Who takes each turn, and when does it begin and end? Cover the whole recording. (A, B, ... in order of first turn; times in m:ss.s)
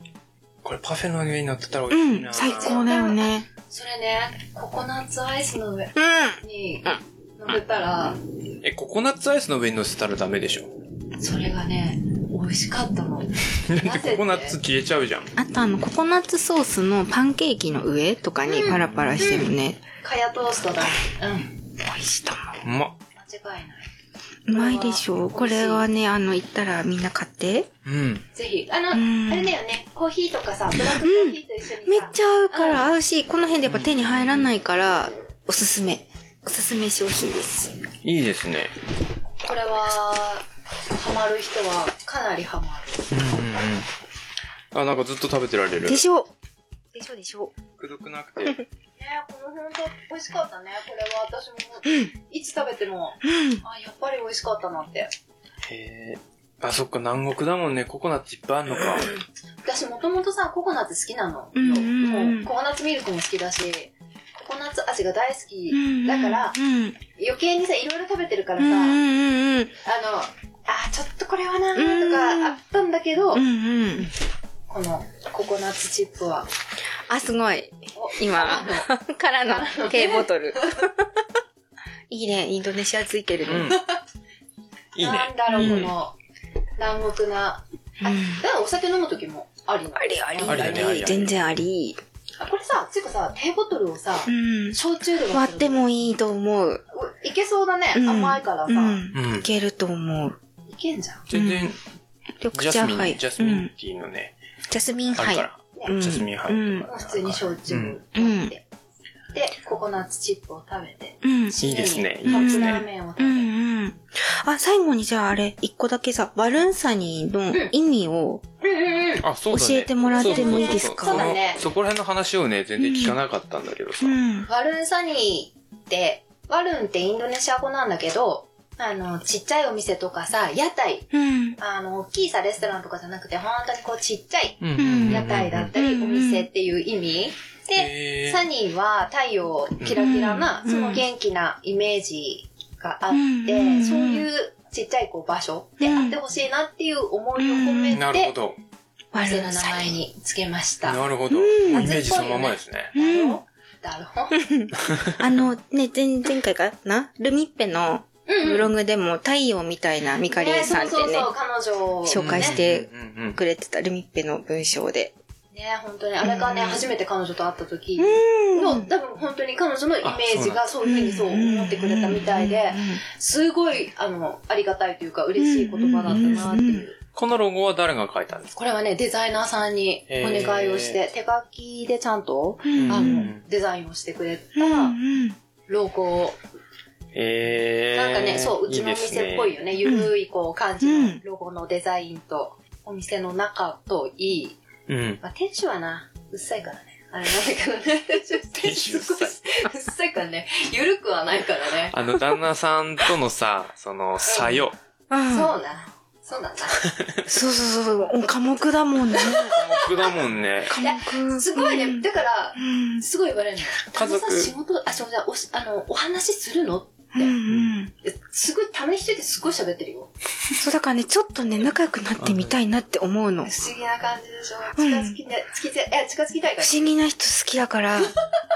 0:00.6-0:02.9 A
0:01.9-0:03.5 B
0:02.4-0:08.2 C
0:06.0-0:07.0 B
0:08.6-0:10.7 A
0:11.2-0:14.6 C
0:13.6-0:15.3 A
0:15.4-0:19.8 B
0:18.4-0:19.5 C
0:20.0-0:21.6 C
0:21.8-0:22.6 B
0:22.6-0:23.0 A
0:23.1-0:23.9 C
0:24.5-0:27.7 B
0:24.5-0:25.9 C
0:27.8-0:28.2 A
0:28.3-0:32.9 C
0:28.9-0:29.6 B
0:30.8-0:37.7 B
0:33.7-0:34.4 A
0:38.0-0:38.7 A
0:39.4-0:43.1 C
0:43.1-0:43.9 A
0:44.7-0:46.0 A
0:45.8-0:46.3 B
0:46.9-0:47.5 B
0:47.8-0:48.6 A
0:49.0-0:55.1 C
0:53.2-0:53.6 B
0:55.6-0:59.1 A
0:59.6-1:06.6 C
1:01.6-1:02.5 B
1:05.7-1:07.0 B
1:07.1-1:09.0 C
1:08.6-1:09.7 B
1:09.8-1:13.4 C
1:11.8-1:12.6 B
1:13.3-1:14.1 B
1:14.7-1:16.5 C
1:17.1-1:21.0 B
1:17.9-1:18.9 C
1:19.5-1:20.8 C
1:22.1-1:23.7 B
1:23.4-1:23.8 A
1:23.6-1:24.0 C
1:24.9-1:25.9 A
1:25.0-1:26.2 C
1:25.5-1:25.9 B
1:26.8-1:31.1 C
1:28.0-1:28.4 B
1:30.0-1:32.0 B
1:30.4-1:31.4 A
1:32.4-1:35.8 C
1:34.3-1:34.8 B
1:35.3-1:36.8 B
1:36.9-1:39.0 C
1:37.9-1:40.4 B
1:39.1-1:39.5 A
1:40.7-1:41.2 C
1:41.3-1:41.8 A
1:41.3-1:41.7 B
1:42.4-1:43.7 B
1:42.5-1:44.3 A
1:44.7-1:46.9 B
1:45.2-1:48.0 A
1:46.8-1:48.6 C
1:48.1-1:48.5 B
1:49.3-1:53.5 C
1:51.2-1:51.6 B
1:51.6-1:52.8 A
1:52.2-1:58.4 B
1:58.6-1:59.3 C
1:59.2-2:04.2 A
1:59.5-2:01.4 B
2:00.1-2:01.6 C
2:02.8-2:03.2 B
2:04.0-2:04.5 B
2:04.5-2:28.3 C
2:11.1-2:11.6 B
2:14.6-2:15.7 A
2:14.8-2:16.5 B
2:17.7-2:18.4 A
2:19.9-2:21.0 B
2:23.1-2:24.3 B
2:25.8-2:26.2 B
2:27.4-2:28.0 B
2:27.9-2:28.6 A
2:29.1-2:29.9 B
2:29.1-2:31.0 C
2:30.8-2:32.9 A
2:31.3-2:32.0 B
2:31.6-2:34.5 C
2:32.9-2:33.4 B
2:34.3-2:41.3 B
2:34.8-2:35.1 A
2:38.3-2:38.7 C
2:40.3-2:42.6 C
2:42.0-2:45.1 B
2:42.2-2:43.4 A
2:45.5-2:57.0 C
2:46.2-2:46.9 B
2:48.0-2:48.9 B
2:50.0-2:50.7 A
2:50.8-2:53.0 B
2:55.4-2:56.9 B
2:57.1-2:58.6 A
2:58.6-3:05.0 C
3:00.1-3:01.0 A
3:02.7-3:03.3 B
3:02.7-3:03.4 A
3:04.6-3:05.4 B
3:05.7-3:06.4 C
3:07.1-3:09.6 A
3:07.9-3:14.6 C
3:09.8-3:10.1 B
3:10.8-3:11.2 B
3:14.9-3:15.2 A
3:15.2-3:22.0 C
3:18.5-3:19.4 A
3:21.9-3:24.7 A
3:24.2-3:24.7 C
3:25.1-3:25.6 B
3:25.3-3:26.8 C
3:26.8-3:27.2 A
3:27.2-3:29.6 B
3:29.1-3:30.1 C
3:29.5-3:30.8 A
3:30.7-3:32.0 B
3:30.8-3:37.3 C
3:32.6-3:33.0 B
3:33.8-3:34.5 A
3:37.1-3:37.9 B
3:38.0-3:40.1 C
3:40.6-3:43.5 B
3:42.2-3:42.6 A
3:43.4-3:46.9 C
3:44.8-3:45.1 B
3:46.6-3:48.1 B